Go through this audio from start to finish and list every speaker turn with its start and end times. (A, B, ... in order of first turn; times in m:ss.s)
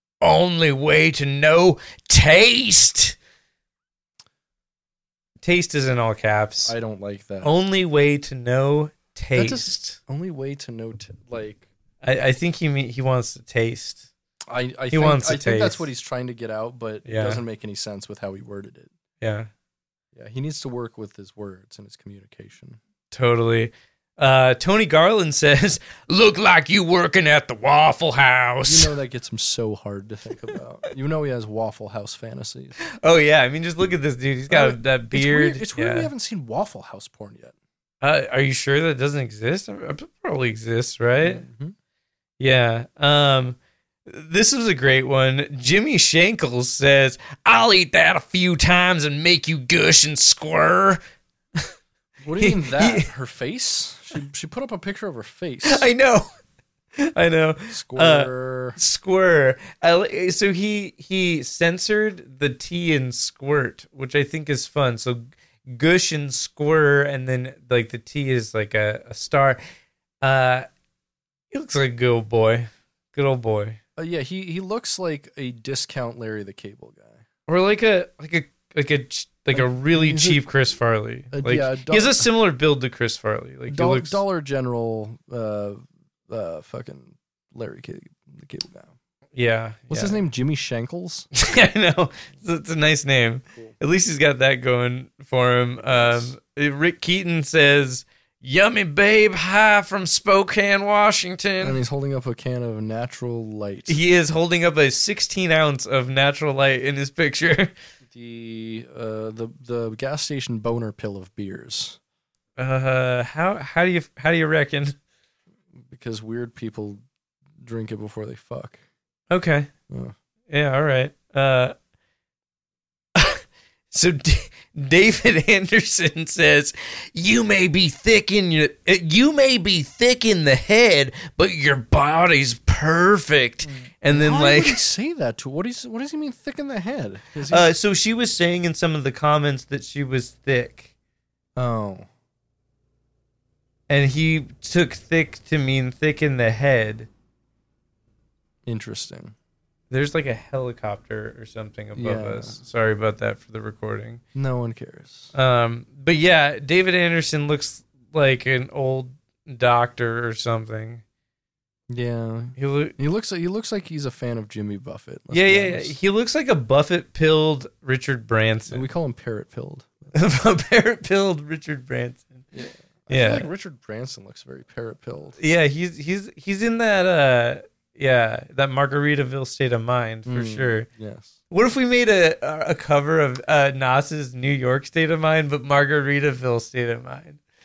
0:00.2-0:03.2 A
0:05.4-0:06.7 A
0:06.7-0:07.5 B
0:07.4-0:10.0 A
0:09.4-0:11.7 B
0:12.0-0:14.0 A
0:14.5-0:18.9 B
0:14.9-0:15.9 A
0:17.1-0:17.4 A
0:19.2-0:19.5 A
0:20.2-0:22.8 B
0:23.1-0:28.9 A
0:28.6-0:32.7 B
0:33.0-0:36.1 A
0:34.5-0:37.6 B
0:38.0-0:41.4 A
0:41.2-0:41.7 B
0:42.4-0:51.0 A
0:52.2-0:55.9 B
0:52.4-0:53.1 A
0:55.6-0:56.3 A
0:57.0-1:09.6 A
0:57.7-0:58.8 B
1:10.2-1:10.7 A
1:11.5-1:13.8 A
1:14.0-1:17.2 B
1:17.5-1:24.2 A
1:19.5-1:20.4 B
1:21.3-1:22.3 B
1:23.7-1:28.9 B
1:29.4-1:30.2 A
1:29.9-1:31.3 B
1:31.4-1:41.8 A
1:35.8-1:36.3 B
1:41.6-1:44.0 B
1:43.9-1:47.7 A
1:48.1-1:52.0 B
1:52.6-1:55.0 A
1:55.9-1:57.0 B
1:57.6-1:58.8 B
1:59.3-1:59.7 A
1:59.9-2:00.1 B
2:00.5-2:01.7 A
2:03.2-2:14.8 A
2:13.6-2:17.7 B
2:17.5-2:20.9 A
2:21.6-2:22.1 B
2:23.9-2:27.1 A
2:28.7-2:29.4 B
2:29.9-2:34.2 A
2:32.0-2:32.6 B
2:34.3-2:35.3 B
2:35.3-2:41.0 A
2:41.9-2:45.9 B
2:42.6-2:43.0 A
2:45.3-2:48.8 A
2:48.7-2:49.9 B
2:50.1-2:52.4 A
2:52.5-2:55.4 B
2:53.1-2:53.5 A
2:55.4-3:00.9 A
3:00.3-3:01.4 B
3:01.5-3:07.4 A